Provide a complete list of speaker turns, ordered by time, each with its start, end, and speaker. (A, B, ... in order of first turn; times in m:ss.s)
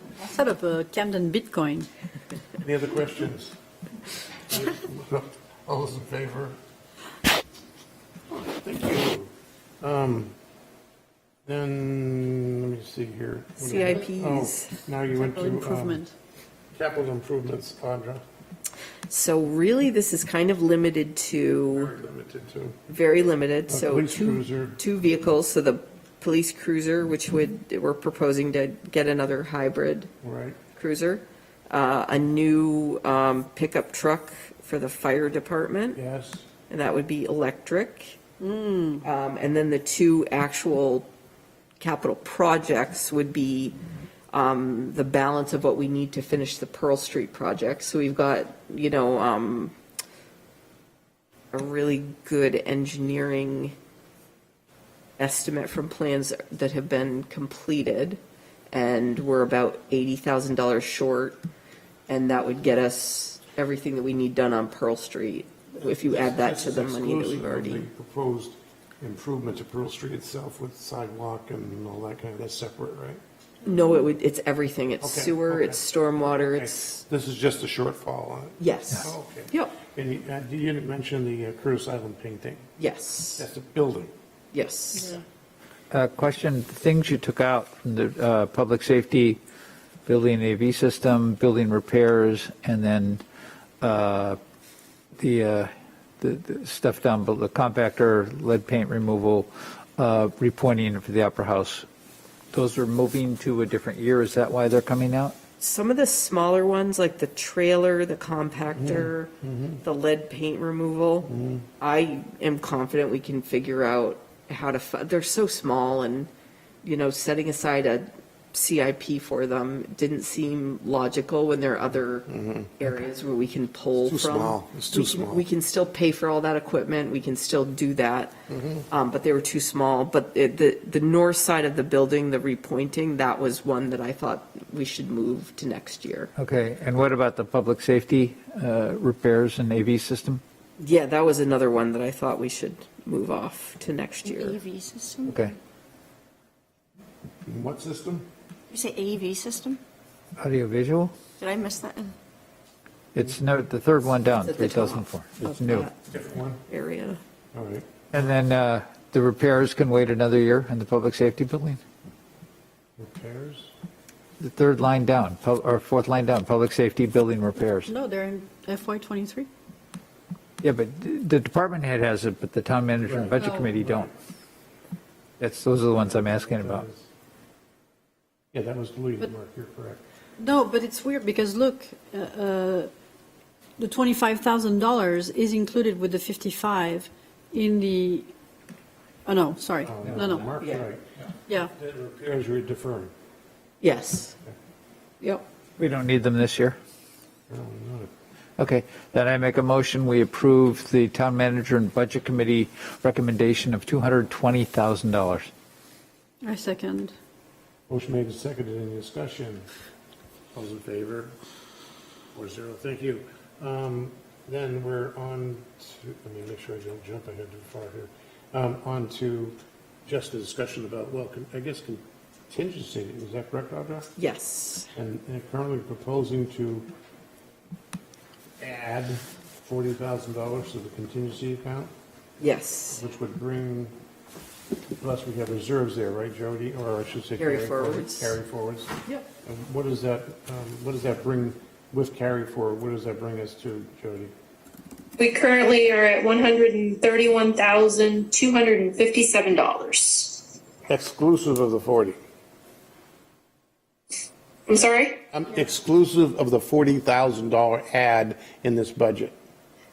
0:00.2-0:01.9 A
0:02.6-0:03.6 B
0:04.5-0:06.6 B
0:08.3-0:10.3 B
0:11.5-0:16.0 B
0:13.6-0:14.7 C
0:15.1-0:16.1 A
0:16.8-0:18.2 B
0:19.1-0:21.9 C
0:21.7-0:22.8 B
0:22.9-0:30.1 C
0:23.7-0:24.8 B
0:30.2-0:30.6 B
0:30.8-0:36.0 C
0:35.9-0:36.5 B
0:36.7-0:38.2 C
0:38.4-0:39.0 A
0:39.0-0:41.1 C
0:41.8-0:43.8 C
0:44.3-0:49.7 C
0:51.5-0:53.8 C
0:55.2-0:58.2 C
0:58.7-1:01.4 C
1:02.1-1:07.9 C
1:05.8-1:13.2 B
1:13.6-1:17.0 C
1:15.0-1:15.8 B
1:16.4-1:22.7 B
1:18.6-1:19.8 C
1:22.8-1:23.4 C
1:23.4-1:24.1 B
1:24.5-1:25.2 C
1:25.9-1:29.4 D
1:30.1-1:33.2 D
1:33.8-1:34.4 D
1:35.2-1:41.8 D
1:42.5-1:45.4 D
1:45.6-1:56.3 C
1:48.8-1:49.8 B
1:51.3-1:51.7 B
1:56.8-2:08.3 C
2:02.3-2:02.8 B
2:04.0-2:05.4 B
2:08.5-2:08.9 B
2:08.9-2:16.3 C
2:16.4-2:20.4 D
2:20.8-2:24.6 C
2:24.2-2:25.4 E
2:25.3-2:25.5 D
2:27.5-2:28.3 B
2:28.7-2:29.8 E
2:30.4-2:31.1 D
2:31.4-2:32.1 E
2:33.1-2:35.9 D
2:34.4-2:36.0 C
2:36.1-2:36.6 B
2:36.7-2:37.2 C
2:37.5-2:37.9 B
2:38.1-2:41.8 D
2:43.0-2:43.7 B
2:44.4-2:47.9 D
2:47.9-2:49.5 A
2:50.6-2:54.1 D
2:53.0-2:54.1 B
2:53.4-2:53.7 A
2:55.4-2:56.9 D
2:56.0-2:57.1 B
2:58.5-3:00.0 B
3:00.4-3:02.9 A
3:03.8-3:08.3 A
3:09.2-3:10.5 A
3:09.8-3:13.1 B
3:10.6-3:10.8 C
3:13.8-3:14.4 C
3:15.8-3:16.8 D
3:17.5-3:18.1 B
3:18.6-3:25.5 D
3:26.4-3:27.2 A
3:27.9-3:29.7 B
3:30.5-3:31.3 B
3:32.4-3:44.1 B
3:44.2-3:44.9 C
3:45.0-3:46.9 B
3:48.6-3:51.9 B
3:52.4-3:53.0 C
3:52.9-3:53.9 B
3:55.0-4:04.3 B
3:57.4-3:58.4 C
4:05.2-4:10.4 F
4:10.9-4:12.2 B
4:14.7-4:15.2 F
4:15.3-4:19.4 B